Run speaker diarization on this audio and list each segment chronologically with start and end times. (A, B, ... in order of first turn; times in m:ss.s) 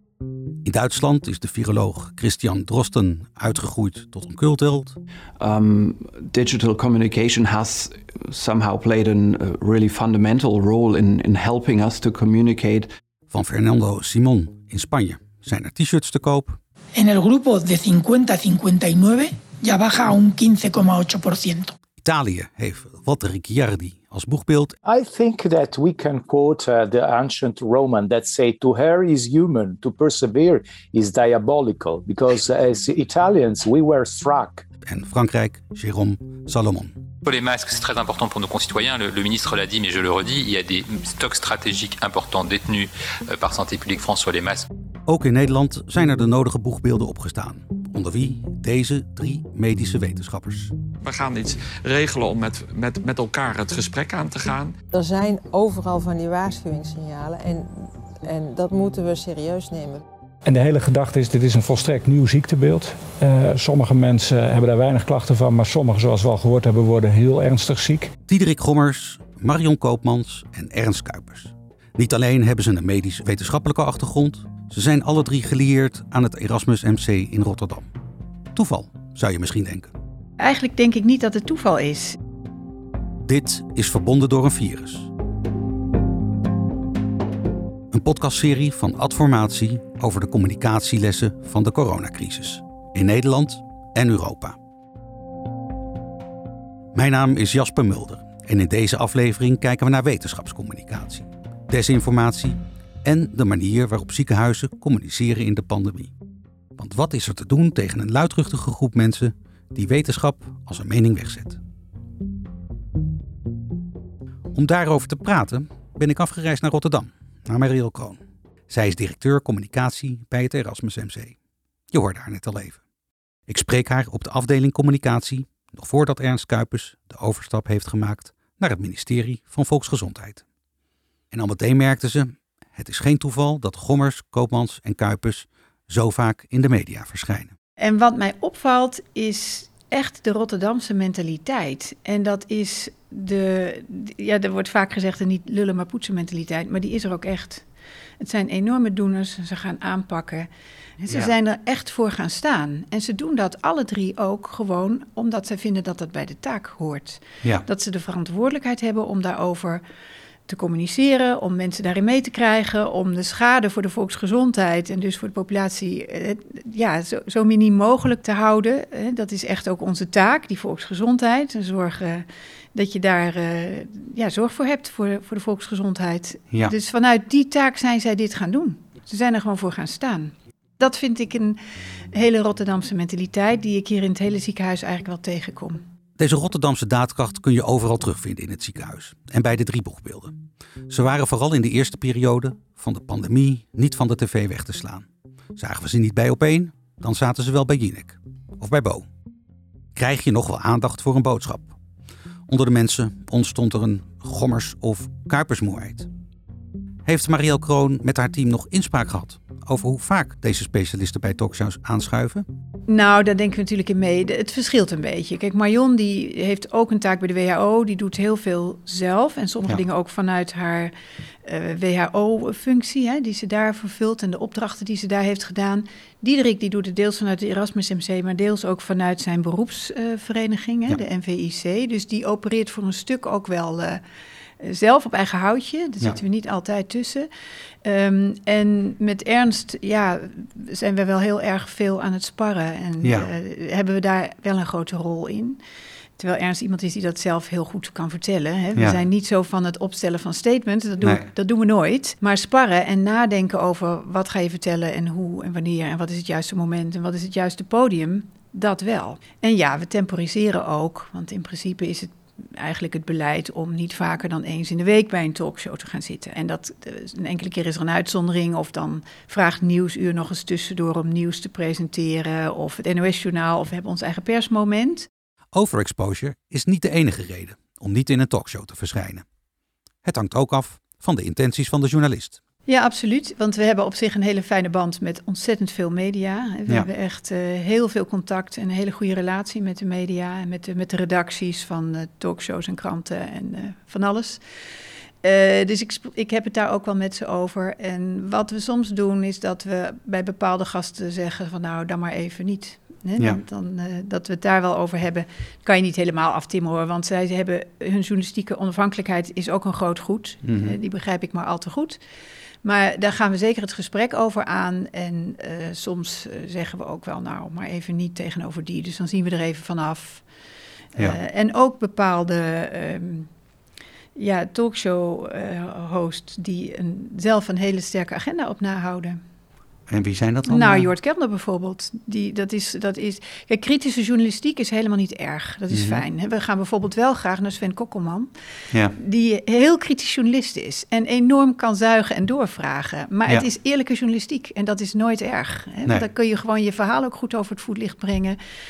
0:00.6-0:05.0 A
0:05.4-0:12.9 B
0:13.3-0:16.6 A
0:17.0-0:21.7 C
0:22.0-0:24.8 A
0:24.8-0:34.6 D
0:34.8-0:37.0 A
0:37.2-0:44.6 E
0:45.0-0:50.7 A
0:51.0-0:54.7 F
0:54.9-1:00.0 G
1:00.4-1:08.1 H
1:08.3-1:17.9 A
1:18.5-1:19.9 A
1:20.4-1:22.2 I
1:23.2-1:25.1 A
1:27.9-1:34.6 A
1:36.9-1:46.1 A
1:46.8-1:51.6 A
1:54.5-2:01.4 A
2:01.9-2:02.8 A
2:03.5-2:10.4 A
2:11.3-2:17.5 A
2:17.8-2:27.6 I
2:28.2-2:30.5 I
2:31.0-2:39.8 I
2:40.5-3:01.6 I
3:02.1-3:05.8 I
3:06.2-3:10.4 A
3:10.9-3:19.1 A
3:19.9-3:21.7 A
3:22.5-3:26.1 A
3:27.0-3:32.4 A
3:32.9-3:40.9 I
3:41.4-3:54.0 I
3:54.6-3:57.3 I
3:57.8-4:05.6 I
4:03.0-4:03.3 A
4:06.2-4:35.1 I
4:11.0-4:11.3 A
4:35.5-4:39.2 A
4:40.0-4:42.4 A
4:42.7-4:54.4 I
4:55.2-5:12.0 I
5:10.4-5:10.8 A
5:12.6-5:20.2 I
5:21.0-5:23.3 I
5:24.1-5:29.2 I
5:29.9-5:30.9 A
5:30.5-5:38.3 I
5:35.7-5:36.0 A
5:38.9-5:48.4 I